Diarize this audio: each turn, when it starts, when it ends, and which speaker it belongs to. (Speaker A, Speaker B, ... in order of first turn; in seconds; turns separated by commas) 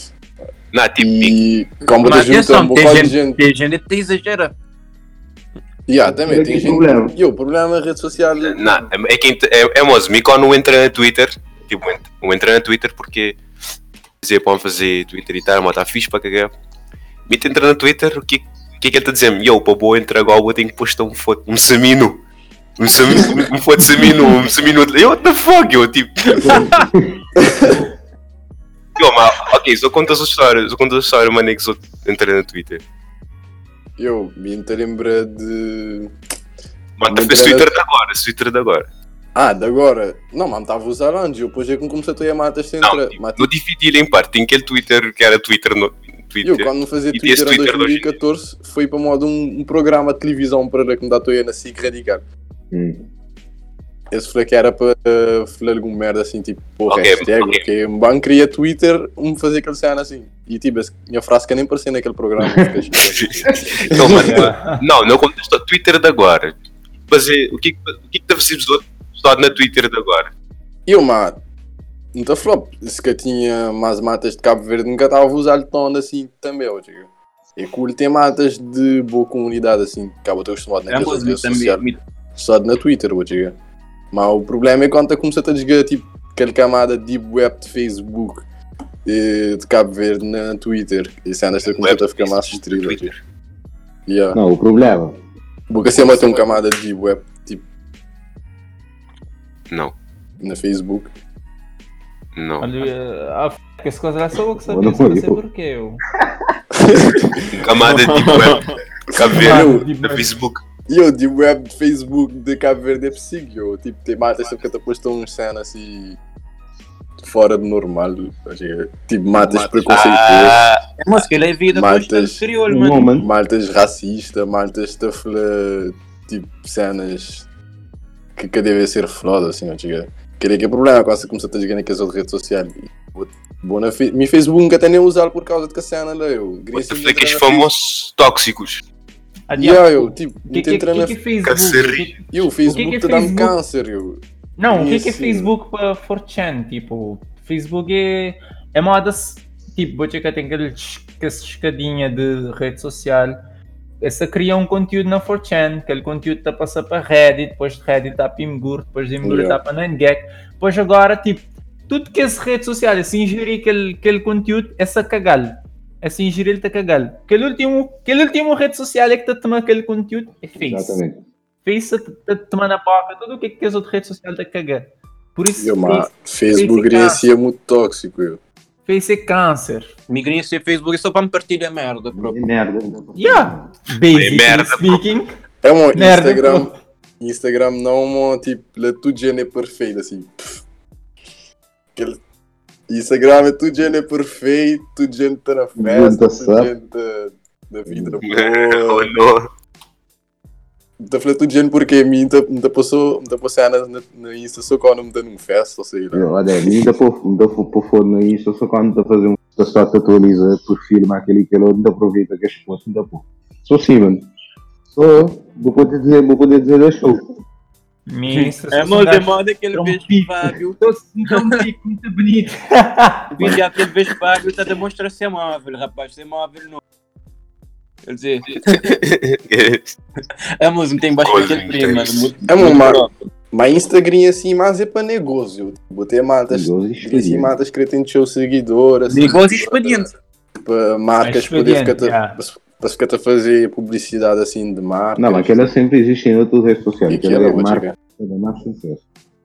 Speaker A: 0.7-1.4, Speaker B: 1.0-3.4, Speaker C: 2.0-4.5, Speaker B: 5.9-8.6, Speaker D: 6.1-7.2, Speaker A: 8.5-13.4, Speaker A: 14.2-16.5, Speaker A: 17.3-22.2, Speaker A: 22.8-26.9, Speaker D: 26.4-27.2, Speaker B: 27.4-27.8, Speaker A: 29.0-32.8, Speaker B: 34.0-36.1, Speaker A: 37.0-38.9, Speaker B: 37.1-37.7, Speaker B: 39.4-43.5, Speaker A: 42.8-48.2, Speaker B: 46.4-52.2, Speaker D: 52.7-53.1, Speaker B: 54.1-64.5, Speaker A: 56.9-57.6, Speaker A: 63.8-66.5, Speaker E: 64.1-64.8, Speaker A: 67.1-70.3, Speaker B: 70.9-71.4, Speaker B: 72.1-83.5, Speaker C: 80.9-82.0, Speaker B: 84.1-88.5, Speaker B: 89.0-93.2, Speaker A: 91.8-93.2, Speaker B: 94.1-94.4, Speaker D: 94.3-95.2, Speaker B: 95.7-97.7, Speaker B: 100.4-101.1, Speaker A: 102.3-102.7, Speaker E: 102.6-106.0, Speaker D: 104.7-105.4, Speaker D: 106.2-106.6, Speaker B: 106.8-107.7, Speaker A: 107.5-110.6, Speaker C: 107.8-108.8, Speaker B: 109.1-109.9, Speaker E: 109.3-110.3, Speaker B: 110.9-116.2, Speaker B: 117.2-120.6, Speaker A: 119.4-120.8, Speaker C: 121.0-123.1, Speaker B: 121.7-122.5, Speaker D: 122.7-123.3, Speaker B: 123.2-127.5, Speaker B: 128.4-137.7, Speaker A: 136.7-138.8, Speaker E: 139.5-143.5, Speaker B: 139.6-141.2, Speaker A: 141.4-142.1, Speaker B: 142.3-145.5, Speaker E: 144.6-153.4, Speaker E: 154.0-171.0, Speaker B: 159.2-159.6, Speaker D: 170.6-171.2, Speaker E: 171.7-177.3, Speaker B: 175.6-178.4, Speaker E: 178.9-179.9, Speaker C: 180.1-182.4, Speaker D: 182.1-183.7, Speaker E: 183.2-185.3, Speaker A: 184.1-185.0, Speaker B: 185.6-190.6, Speaker E: 185.9-186.7, Speaker B: 192.9-199.1, Speaker D: 195.8-196.7, Speaker D: 197.9-198.2, Speaker A: 198.2-199.4, Speaker B: 201.0-206.3, Speaker D: 206.1-214.3, Speaker D: 214.9-217.2, Speaker E: 218.1-223.5, Speaker C: 218.3-221.7, Speaker C: 223.3-226.8, Speaker C: 228.1-228.8, Speaker A: 228.7-230.0, Speaker C: 230.6-233.1, Speaker A: 231.2-232.3, Speaker B: 232.5-240.0, Speaker D: 236.5-237.5, Speaker C: 239.1-240.1, Speaker B: 240.6-245.6, Speaker E: 241.2-242.4, Speaker D: 245.2-249.0, Speaker B: 247.1-247.9